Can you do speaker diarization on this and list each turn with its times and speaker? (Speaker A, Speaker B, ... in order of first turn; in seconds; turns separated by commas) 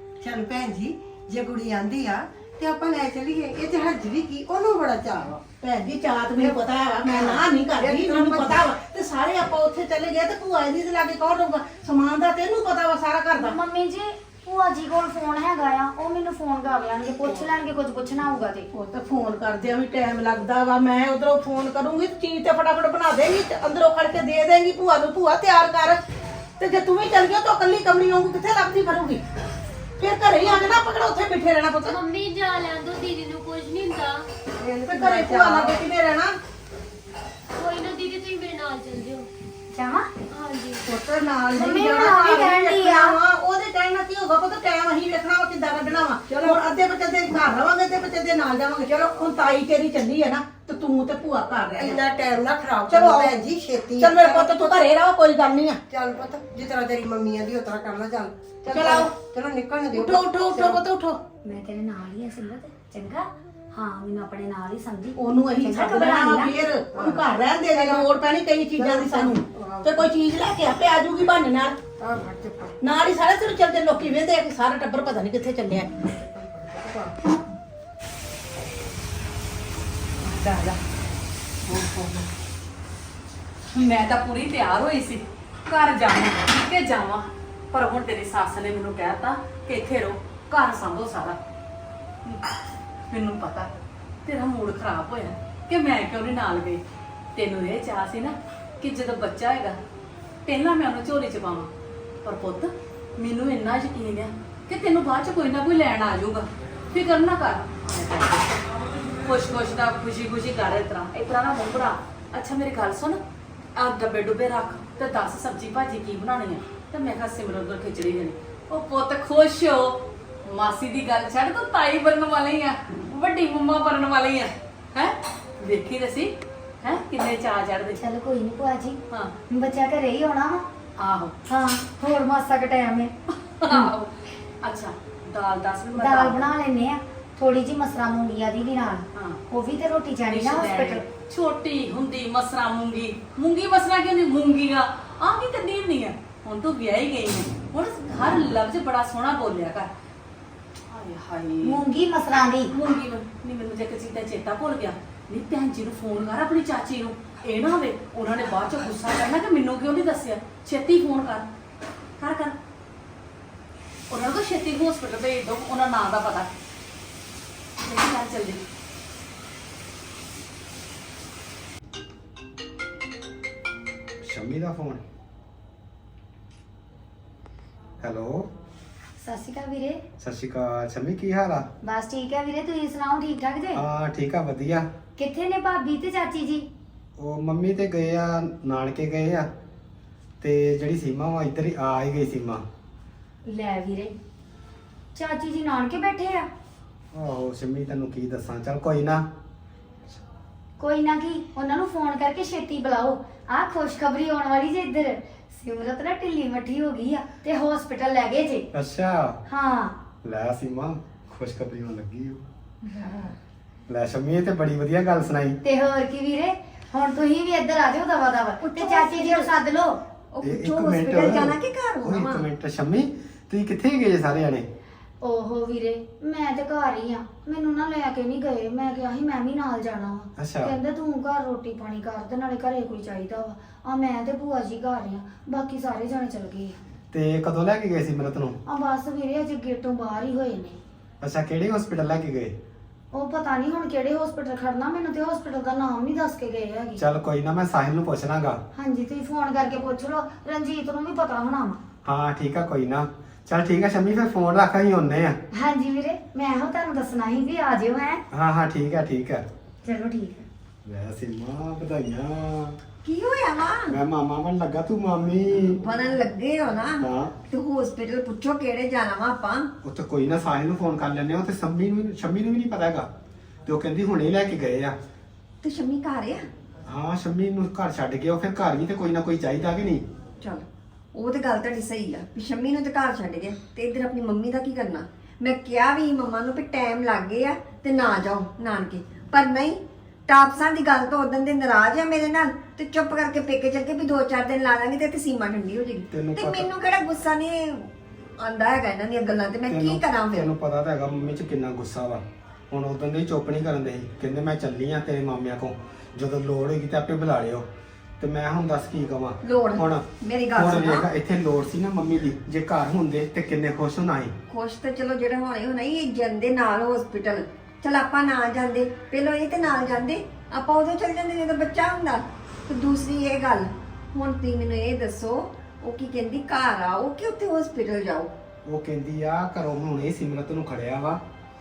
Speaker A: 0.2-5.5, Speaker B: 5.5-13.6, Speaker A: 6.3-8.7, Speaker C: 13.4-18.7, Speaker B: 18.7-26.0, Speaker B: 26.6-29.2, Speaker B: 30.0-32.0, Speaker D: 31.9-34.3, Speaker A: 34.6-35.9, Speaker B: 34.9-36.4, Speaker D: 37.5-39.3, Speaker C: 39.7-40.1, Speaker D: 40.3-40.9, Speaker A: 40.9-42.2, Speaker B: 41.2-52.0, Speaker C: 41.5-43.2, Speaker A: 46.3-46.6, Speaker A: 51.7-54.9, Speaker B: 52.9-53.4, Speaker B: 54.0-55.8, Speaker A: 55.9-60.8, Speaker B: 58.7-59.1, Speaker B: 60.0-61.2, Speaker C: 61.5-66.6, Speaker B: 65.2-71.8, Speaker A: 66.9-68.1, Speaker A: 68.8-70.1, Speaker A: 72.0-72.7, Speaker B: 72.8-75.9, Speaker A: 76.2-77.1, Speaker E: 80.2-80.8, Speaker A: 81.7-82.2, Speaker E: 83.7-91.4, Speaker E: 93.1-93.7, Speaker E: 94.2-96.8, Speaker E: 97.3-99.8, Speaker E: 100.5-101.7, Speaker E: 102.2-108.6, Speaker E: 109.2-113.2, Speaker E: 113.8-126.3, Speaker E: 126.8-128.0, Speaker C: 128.0-129.0, Speaker C: 129.5-130.7, Speaker E: 131.0-131.3, Speaker C: 131.5-133.1, Speaker E: 133.6-134.1, Speaker E: 134.6-136.5, Speaker C: 135.9-141.0, Speaker E: 139.1-139.4, Speaker E: 140.3-149.9, Speaker E: 150.9-151.8, Speaker C: 151.7-152.7, Speaker E: 152.7-161.5, Speaker E: 162.2-162.6, Speaker E: 164.1-166.5, Speaker E: 167.8-168.7, Speaker F: 174.2-175.0, Speaker F: 178.0-178.5, Speaker C: 179.2-180.0, Speaker F: 180.2-181.7, Speaker C: 181.8-183.8, Speaker F: 183.7-184.9, Speaker C: 185.2-186.7, Speaker F: 187.2-189.5, Speaker F: 190.4-192.7, Speaker C: 193.5-194.2, Speaker C: 195.2-196.5, Speaker F: 197.1-199.2, Speaker C: 200.8-208.7, Speaker F: 208.7-209.4, Speaker C: 209.5-210.0, Speaker F: 210.2-212.5, Speaker G: 213.0-213.3, Speaker F: 213.9-215.6, Speaker C: 215.6-220.0, Speaker G: 218.6-219.5, Speaker G: 220.3-222.5, Speaker F: 220.4-224.7, Speaker C: 225.2-236.8, Speaker F: 230.4-230.8, Speaker F: 237.1-238.6, Speaker C: 238.7-240.8, Speaker F: 241.2-242.6, Speaker C: 243.1-247.0, Speaker F: 247.0-248.6, Speaker C: 248.7-251.8, Speaker F: 252.0-255.4, Speaker C: 255.6-258.2, Speaker F: 258.3-259.4, Speaker C: 259.9-260.4, Speaker F: 260.9-262.8, Speaker G: 263.0-264.0, Speaker F: 263.9-265.8, Speaker G: 265.8-269.7, Speaker F: 267.0-267.3, Speaker F: 269.8-273.1, Speaker F: 273.7-275.0, Speaker G: 275.6-276.4, Speaker F: 276.9-280.1, Speaker G: 280.4-300.4, Speaker F: 296.1-296.7, Speaker F: 299.7-307.7, Speaker F: 308.2-314.3, Speaker G: 309.4-311.1, Speaker G: 314.5-328.3, Speaker F: 328.7-331.2